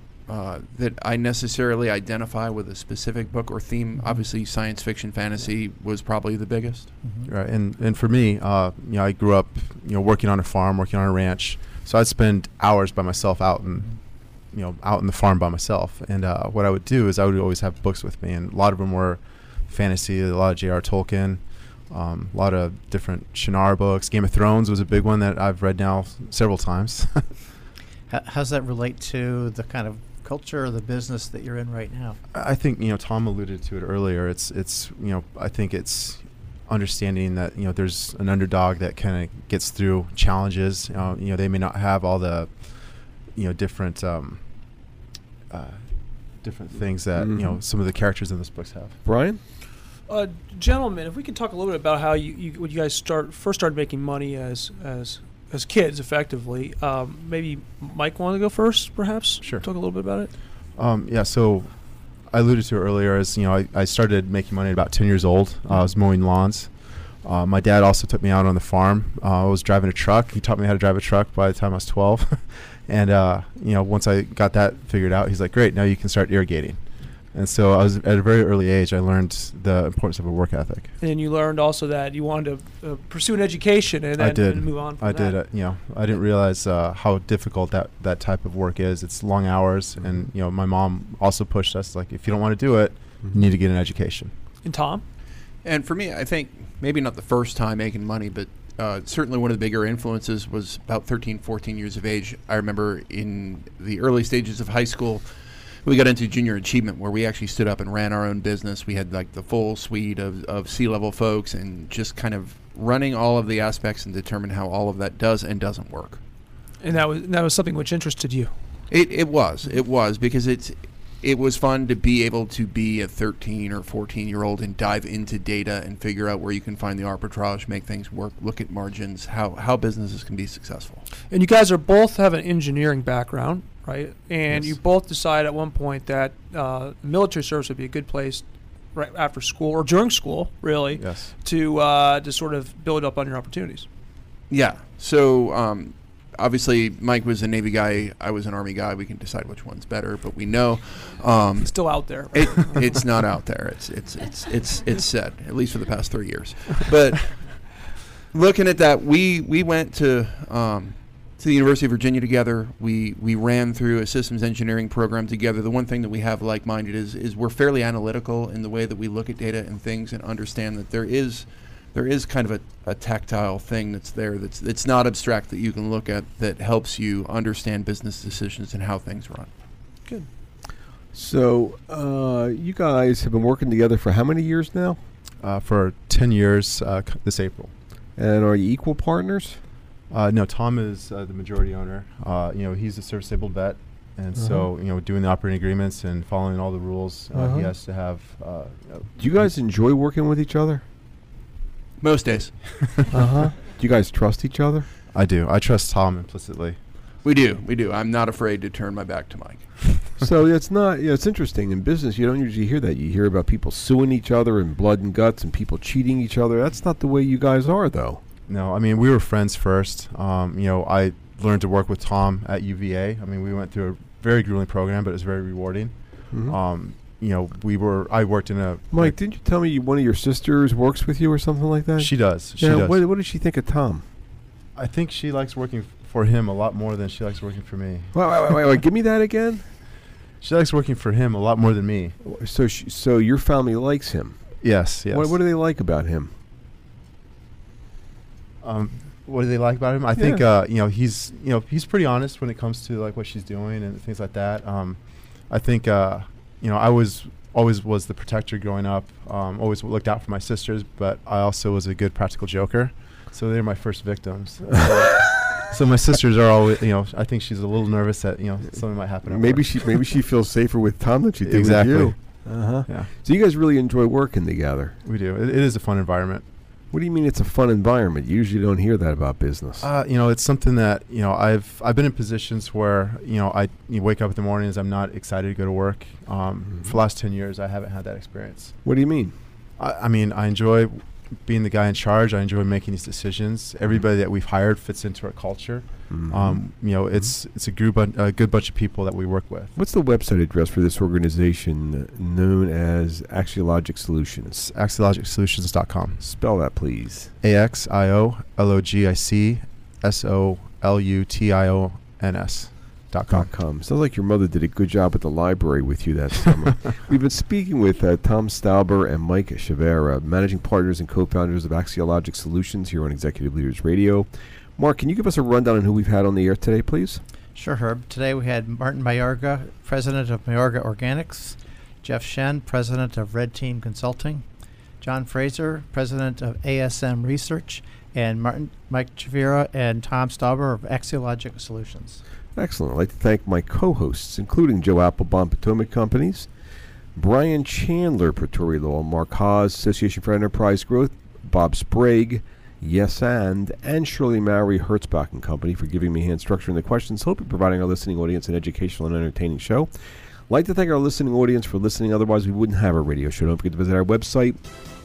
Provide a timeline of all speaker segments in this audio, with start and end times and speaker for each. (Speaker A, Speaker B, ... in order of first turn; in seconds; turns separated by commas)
Speaker A: 0.2-6.9, Speaker B: 7.0-7.3, Speaker C: 7.2-27.3, Speaker B: 28.1-32.2, Speaker C: 32.3-44.9, Speaker C: 45.5-49.0, Speaker D: 47.1-47.6, Speaker D: 49.0-49.4, Speaker E: 49.9-60.3, Speaker C: 59.4-59.7, Speaker C: 60.6-80.9, Speaker E: 81.0-85.4, Speaker C: 84.1-94.3, Speaker D: 90.0-90.3, Speaker E: 94.6-95.0, Speaker A: 95.6-116.2, Speaker E: 116.8-118.8, Speaker A: 118.9-131.0, Speaker E: 131.2-143.9, Speaker C: 134.5-134.8, Speaker C: 140.9-141.4, Speaker A: 144.5-157.7, Speaker E: 151.6-153.0, Speaker A: 158.3-179.5, Speaker D: 181.1-185.0, Speaker C: 185.4-187.8, Speaker D: 188.2-189.6, Speaker C: 190.1-199.5, Speaker D: 194.3-194.7, Speaker D: 197.3-197.7, Speaker D: 199.2-200.8, Speaker A: 202.0-202.8, Speaker C: 202.8-203.1, Speaker D: 203.1-204.9, Speaker C: 205.1-206.8, Speaker A: 207.2-209.7, Speaker D: 210.2-218.2, Speaker C: 218.5-229.2, Speaker D: 226.3-226.6, Speaker D: 228.9-234.1, Speaker C: 232.0-233.0, Speaker C: 234.7-238.6, Speaker D: 238.1-239.7, Speaker C: 240.4-242.2, Speaker D: 242.2-246.3, Speaker C: 244.6-245.4, Speaker C: 248.6-270.1, Speaker D: 250.2-250.4, Speaker D: 264.7-265.2, Speaker D: 269.2-275.0, Speaker C: 271.4-273.1, Speaker C: 275.0-276.5, Speaker D: 276.9-279.9, Speaker C: 279.8-288.8, Speaker D: 288.8-289.3, Speaker C: 289.8-299.7, Speaker D: 296.1-297.3, Speaker D: 299.7-304.6, Speaker C: 304.5-306.2, Speaker D: 306.2-307.3, Speaker C: 307.4-313.5, Speaker D: 313.3-327.2, Speaker B: 327.5-334.4, Speaker B: 335.0-342.2, Speaker D: 342.5-346.5, Speaker D: 347.1-359.9, Speaker D: 360.5-364.6